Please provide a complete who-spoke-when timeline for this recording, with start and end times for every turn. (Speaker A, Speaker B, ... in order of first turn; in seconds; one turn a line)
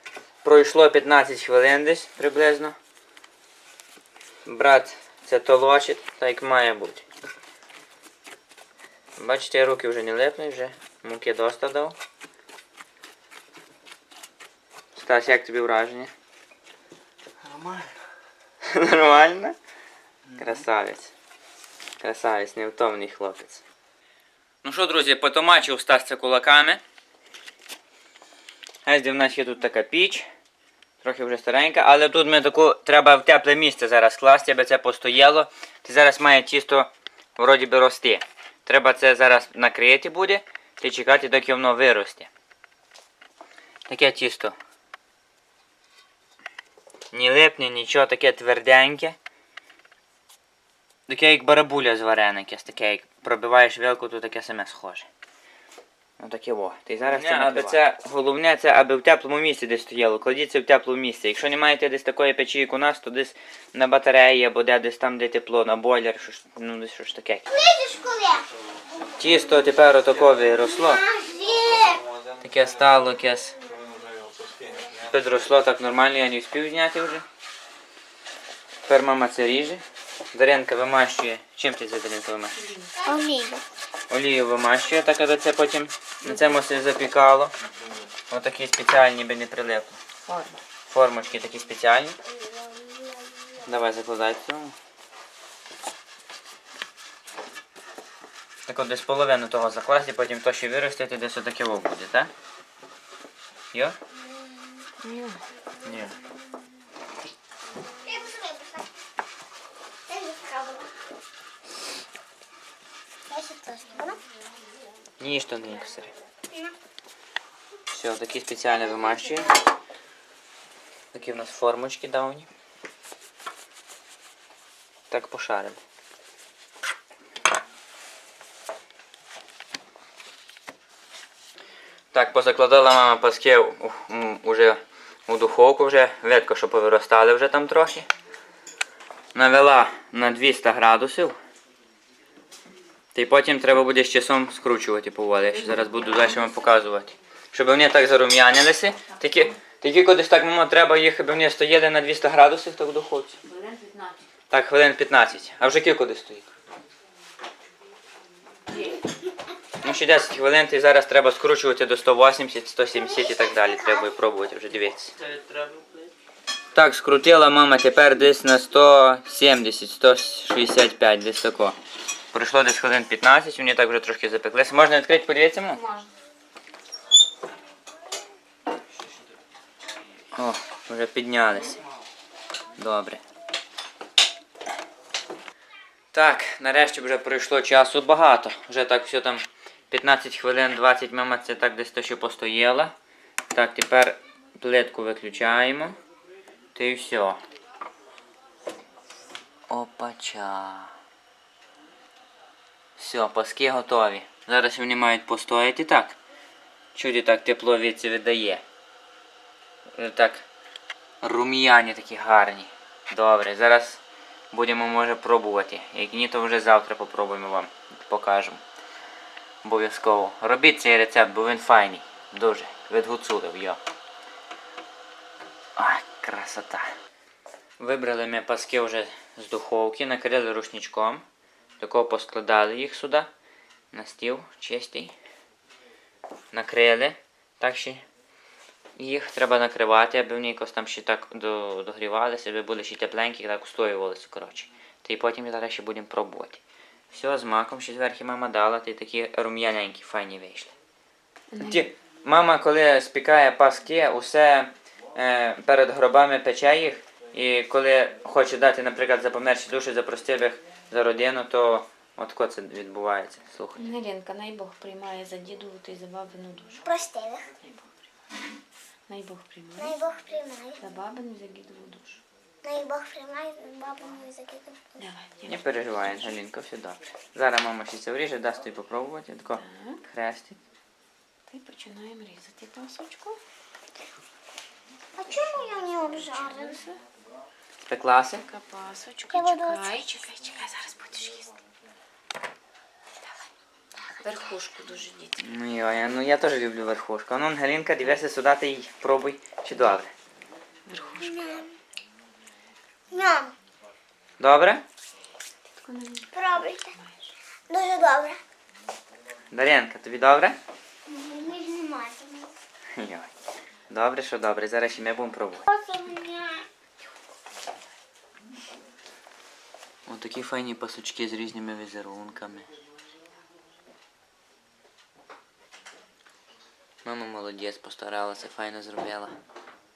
Speaker A: 0.4-2.8
Speaker A: 4.5-7.0
Speaker A: 9.2-12.0
Speaker A: 14.9-16.1
Speaker B: 17.4-17.9
Speaker A: 18.6-19.6
Speaker A: 20.4-21.1
Speaker A: 22.0-23.6
Speaker A: 24.6-26.8
Speaker A: 28.9-30.3
Speaker A: 31.0-42.3
Speaker A: 43.9-44.5
Speaker A: 47.1-49.2
Speaker A: 51.1-55.1
Speaker A: 56.2-67.5
Speaker B: 57.1-57.8
Speaker C: 67.5-68.5
Speaker A: 69.2-71.0
Speaker C: 70.6-72.0
Speaker B: 71.6-72.4
Speaker A: 72.4-73.6
Speaker B: 73.9-75.0
Speaker A: 75.0-77.2
Speaker A: 78.9-79.8
Speaker A: 80.3-82.5
Speaker D: 82.5-83.0
Speaker C: 83.0-83.6
Speaker A: 84.1-87.5
Speaker D: 86.2-86.5
Speaker A: 88.3-90.0
Speaker D: 90.3-90.6
Speaker A: 90.9-92.2
Speaker C: 92.4-93.2
Speaker A: 93.6-94.8
Speaker A: 98.7-102.3
Speaker D: 105.0-105.4
Speaker A: 105.8-106.2
Speaker C: 107.9-108.8
Speaker C: 110.1-110.9
Speaker C: 113.3-114.2
Speaker A: 115.2-116.1
Speaker A: 117.9-119.5
Speaker A: 121.1-122.5
Speaker A: 125.1-125.8
Speaker A: 132.1-138.1
Speaker A: 139.3-141.4
Speaker A: 143.2-153.4
Speaker D: 145.5-146.7
Speaker D: 153.4-154.3
Speaker A: 154.5-156.5
Speaker D: 158.7-159.0
Speaker A: 159.8-165.2
Speaker B: 165.2-166.0
Speaker A: 166.7-171.8
Speaker A: 172.3-175.8
Speaker D: 175.7-176.1
Speaker A: 180.3-181.8
Speaker A: 182.8-183.2
Speaker A: 186.1-192.9
Speaker A: 193.5-196.0
Speaker A: 196.8-197.4
Speaker A: 199.7-200.9
Speaker A: 203.0-206.2
Speaker A: 206.9-208.6
Speaker A: 209.9-210.4
Speaker A: 211.2-214.0
Speaker A: 214.5-218.6
Speaker A: 219.6-223.8
Speaker A: 225.8-226.9
Speaker A: 227.8-231.2
Speaker A: 231.8-233.3
Speaker A: 233.9-235.1
Speaker A: 236.5-238.0
Speaker A: 239.0-250.7
Speaker D: 251.5-251.8
Speaker A: 251.6-263.8
Speaker D: 263.8-266.9
Speaker C: 266.9-267.5
Speaker D: 269.1-270.0
Speaker C: 269.8-270.8
Speaker D: 270.8-272.2
Speaker C: 272.6-275.1
Speaker D: 275.0-276.4
Speaker A: 275.5-280.6
Speaker D: 279.6-280.0
Speaker D: 281.5-283.4
Speaker C: 285.2-286.8
Speaker D: 286.2-287.0
Speaker A: 287.9-288.5
Speaker D: 288.4-291.5
Speaker C: 289.3-290.1
Speaker D: 294.2-295.5
Speaker A: 295.4-300.1
Speaker D: 300.9-301.6
Speaker C: 301.2-301.7
Speaker C: 303.1-303.5
Speaker A: 304.4-304.8
Speaker D: 305.8-307.3
Speaker C: 306.3-306.9
Speaker C: 307.7-308.4
Speaker A: 309.5-310.6
Speaker C: 311.1-312.5
Speaker A: 313.0-313.3
Speaker A: 313.9-315.7
Speaker C: 315.7-316.6
Speaker A: 320.1-322.7
Speaker A: 327.1-329.4